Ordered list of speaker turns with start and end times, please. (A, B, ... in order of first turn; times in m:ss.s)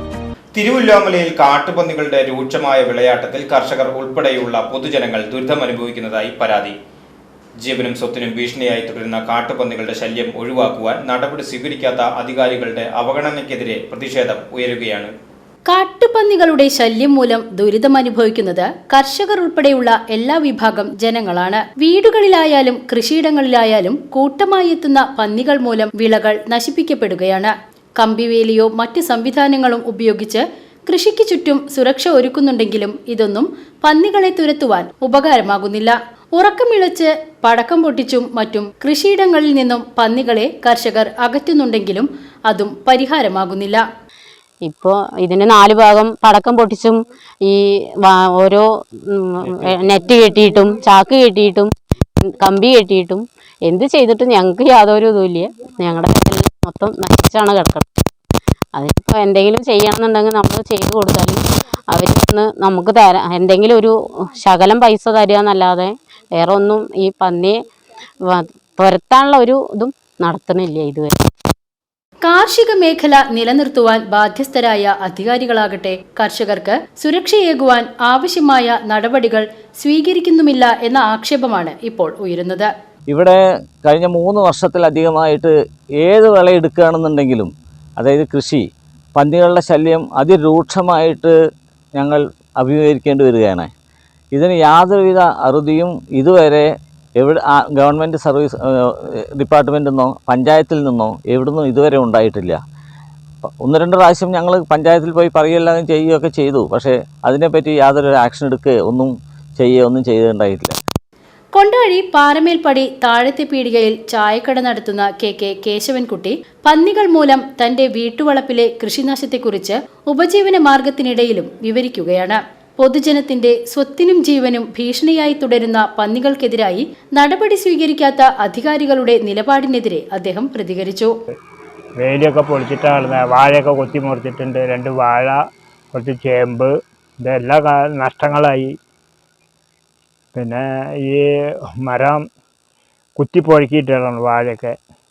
0:00.5-0:06.8 A
0:07.6-0:15.1 A
0:15.7-0:43.8 B
0:44.6-0:58.0 C
0:58.7-1:07.6 C
1:08.3-1:11.2 C
1:12.2-1:22.7 B
1:23.1-1:28.6 D
1:29.1-1:31.3 D
1:31.9-1:33.7 D
1:34.3-1:36.7 D
1:37.2-1:38.5 D
1:39.4-1:42.6 D
1:43.5-1:50.8 D
1:51.5-2:11.1 B
2:12.0-2:15.4 E
2:15.9-2:16.7 E
2:17.2-2:18.7 E
2:20.3-2:21.2 E
2:21.8-2:22.2 E
2:23.2-2:24.7 E